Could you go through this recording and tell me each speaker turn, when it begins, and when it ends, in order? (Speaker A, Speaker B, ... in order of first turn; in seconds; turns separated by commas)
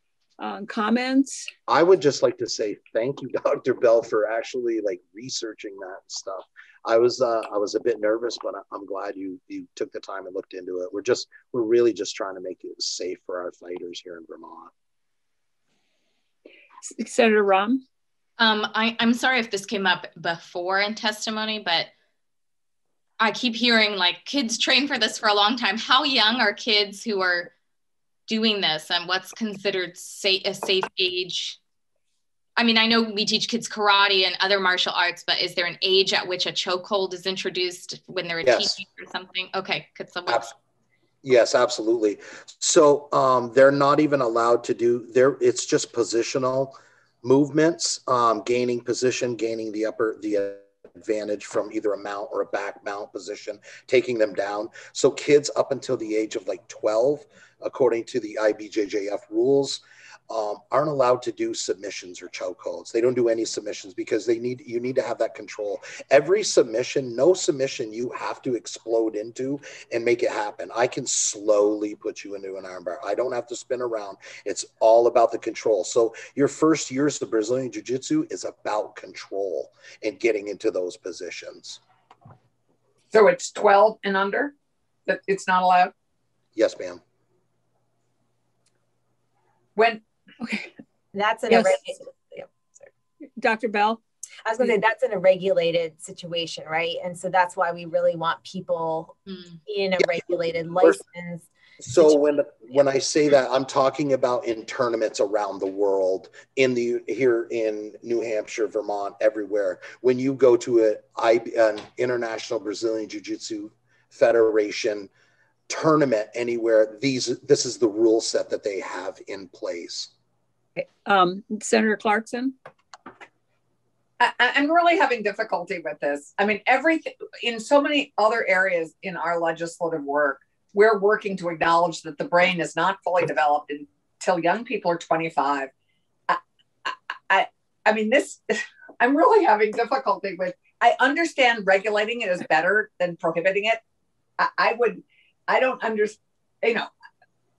Speaker A: 0.4-1.5, Speaker B: 1.7-14.7, Speaker A: 16.8-17.8, Speaker C: 18.4-21.9, Speaker C: 23.2-27.5, Speaker C: 28.3-31.6, Speaker C: 32.6-40.5, Speaker B: 38.4-38.8, Speaker B: 41.2-81.8, Speaker D: 83.1-84.5, Speaker D: 85.1-85.9, Speaker B: 86.5-87.0, Speaker D: 89.8-90.0, Speaker A: 90.4-90.7, Speaker E: 91.1-92.8, Speaker A: 91.5-91.8, Speaker A: 93.4-94.0, Speaker E: 94.4-101.5, Speaker C: 99.3-99.6, Speaker B: 101.8-115.1, Speaker B: 115.7-120.1, Speaker A: 120.8-122.5, Speaker D: 124.2-135.7, Speaker D: 136.3-143.8, Speaker D: 144.4-146.9